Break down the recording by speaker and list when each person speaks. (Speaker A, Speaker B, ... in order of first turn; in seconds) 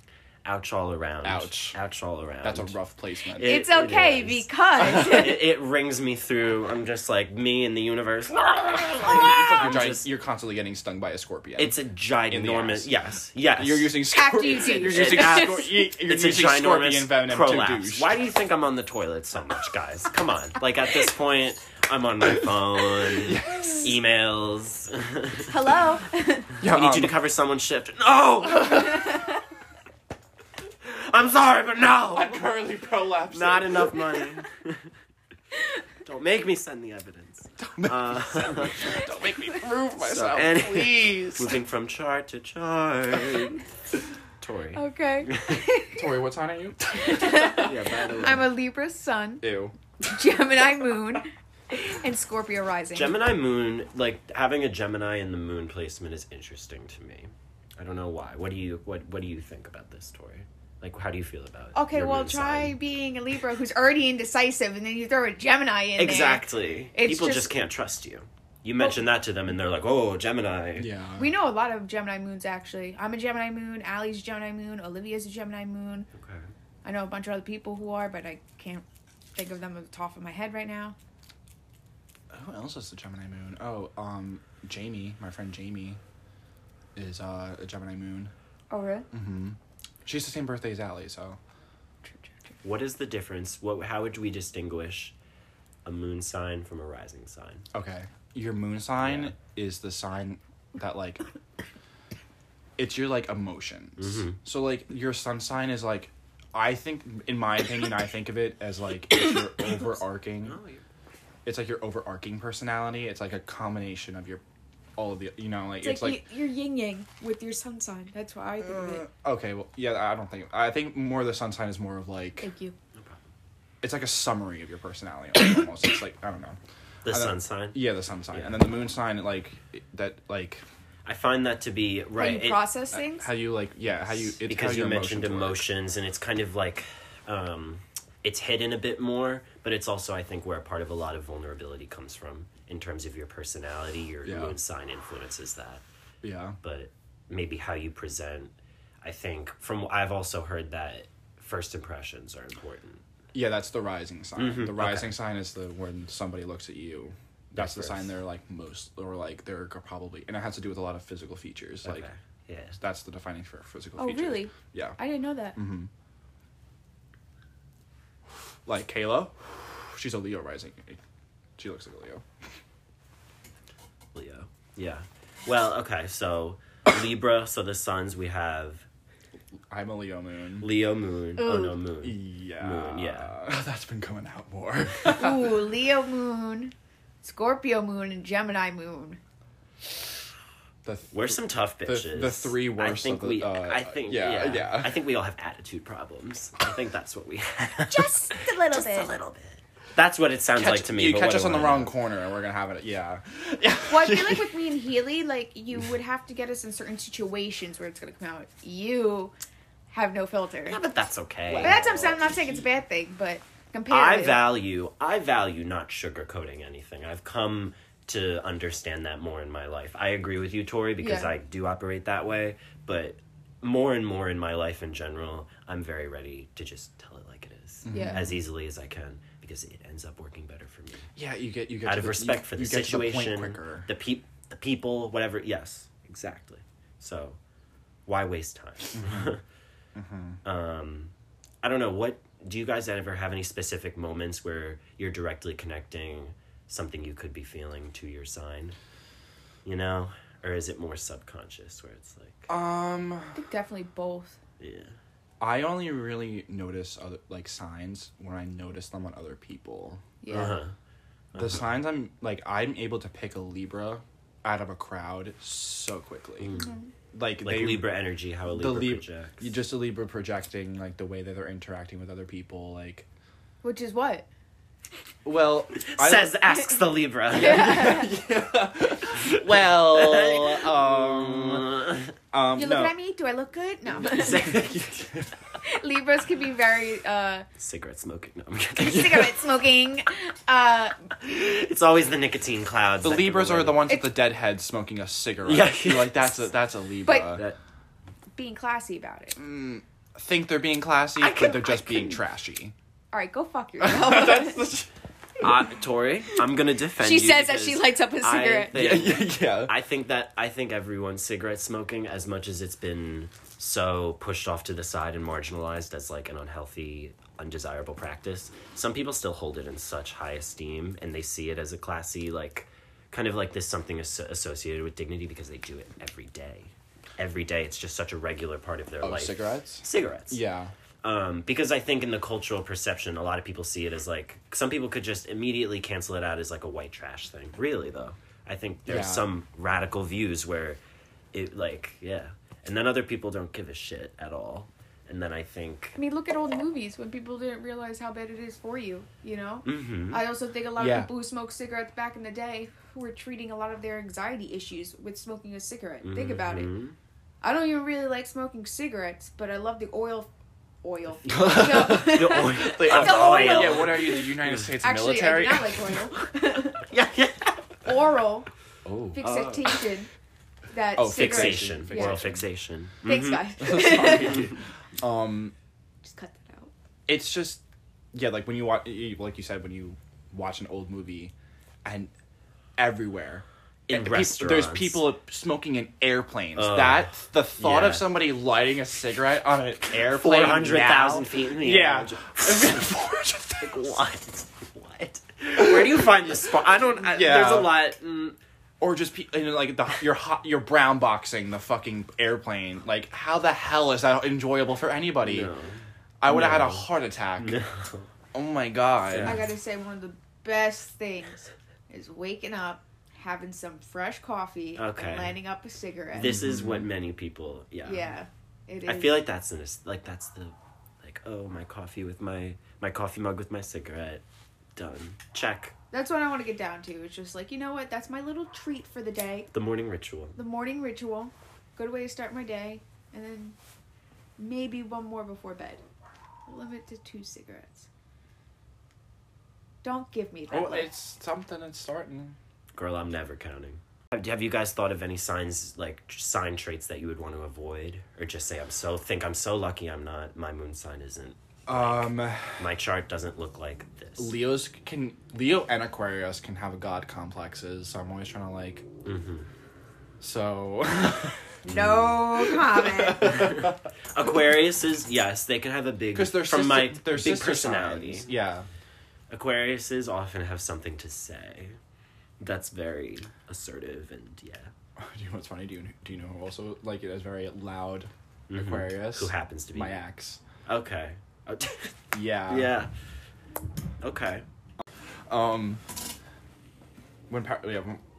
Speaker A: 0.4-2.8, 3.3-10.1, 11.6-14.1, 14.6-25.5, 26.6-29.3, 30.8-32.5, 33.3-34.9, 36.0-38.9, 40.0-43.6, 44.4-45.6, 47.5-48.5, 52.9-62.8, 66.0-70.9, 76.1-76.5, 92.6-95.1, 95.8-97.6, 99.0-99.3, 104.0-104.4, 110.4-110.8, 122.9-123.2, 127.0-128.7, 131.0-132.7, 134.1-145.8, 146.6-153.0, 154.4-155.2, 157.5-158.2, 161.8-162.8, 174.1-178.8, 180.6-183.3, 191.1-201.9, 210.6-212.6, 213.9-231.1, 231.8-237.4, 238.1-239.4, 240.4-241.1, 241.6-248.8, 249.6-252.5, 254.6-254.9, 260.3-260.7, 261.3-261.8, 266.4-266.7, 267.4-269.6, 275.8-278.0, 279.3-282.1, 283.9-285.1, 287.6-289.4, 291.2-293.9, 295.4-296.5, 297.2-297.6, 301.2-301.6, 305.4-330.4, 331.0-340.8, 341.3-346.0, 349.6-350.3, 356.0-356.9, 361.4-364.7, 366.5-367.8, 369.2-369.8, 371.0-374.5, 383.9-385.1, 386.6-388.2, 389.9-393.0, 393.6-398.4, 405.2-408.1, 409.1-409.5, 414.8-415.4, 416.1-418.1, 418.9-424.2, 424.8-425.7, 429.5-430.4, 442.7-454.4, 459.0-459.5, 463.2-468.3, 469.3-471.8, 472.4-474.7, 478.5-480.0, 480.6-482.9, 484.0-484.4
Speaker B: 1.2-1.8, 2.4-3.6, 9.0-11.8, 12.3-12.9, 13.5-18.2, 23.1-23.9, 26.6-27.1, 32.1-34.3, 37.6-41.6, 45.9-47.7, 49.4-49.7, 70.8-71.4, 82.3-86.0, 87.0-88.3, 89.1-91.4, 97.7-101.2, 102.8-110.6, 111.4-114.4, 115.0-116.3, 118.6-122.5, 123.8-130.6, 132.9-135.6, 144.2-144.6, 146.2-146.6, 153.3-162.1, 162.8-165.0, 165.5-165.9, 168.7-171.0, 171.6-172.2, 179.7-180.7, 182.0-185.7, 190.8-195.0, 200.5-204.7, 211.5-211.9, 227.8-228.4, 231.2-233.9, 238.9-239.3, 239.9-240.4, 252.5-253.4, 255.4-260.0, 261.3-266.6, 267.1-267.9, 268.4-273.1, 275.2-276.4, 277.3-281.8, 282.3-282.9, 284.4-285.2, 293.0-297.5, 299.4-302.7, 303.8-304.9, 308.7-309.7, 329.0-330.7, 338.8-339.3, 350.8-351.1, 361.3-366.0, 368.8-369.3, 370.9-372.4, 373.6-375.5, 377.1-377.6, 378.1-381.3, 381.8-382.1, 382.8-393.9, 396.8-397.9, 398.8-405.5, 406.2-407.6, 408.3-409.5, 416.2-416.9, 440.5-442.4, 451.6-452.6, 454.2-458.9, 460.2-463.8, 466.1-468.7, 475.0-480.4, 482.1-482.8, 485.3-485.8, 487.3-488.0
Speaker C: 3.4-5.5, 14.1-15.7, 25.4-26.5, 28.9-29.2, 44.7-46.0, 47.0-49.5, 50.0-53.2, 61.7-67.5, 68.8-69.0, 71.2-76.1, 76.8-81.0, 88.7-89.1, 92.0-92.5, 115.8-119.0, 122.4-122.7, 132.1-133.3, 164.0-165.6, 181.4-181.8, 185.1-189.2, 197.9-199.1, 203.9-209.3, 209.9-210.8, 211.6-214.5, 221.0-221.3, 227.9-228.2, 253.3-254.4, 260.2-260.6, 266.5-266.9, 273.6-274.3, 277.3-278.1, 282.5-284.6, 285.6-287.4, 288.8-290.9, 293.9-294.3, 297.0-297.4, 298.4-299.4, 301.2-302.2, 303.1-304.7, 307.0-308.8, 346.0-356.7, 357.4-360.3, 360.8-366.8, 367.8-368.5, 369.1-370.1, 370.7-372.2, 373.0-374.5, 376.0-376.7, 409.2-416.4, 417.8-419.2, 425.9-429.5, 430.4-433.6, 434.4-435.8, 436.5-437.9, 439.8-440.9, 461.6-463.4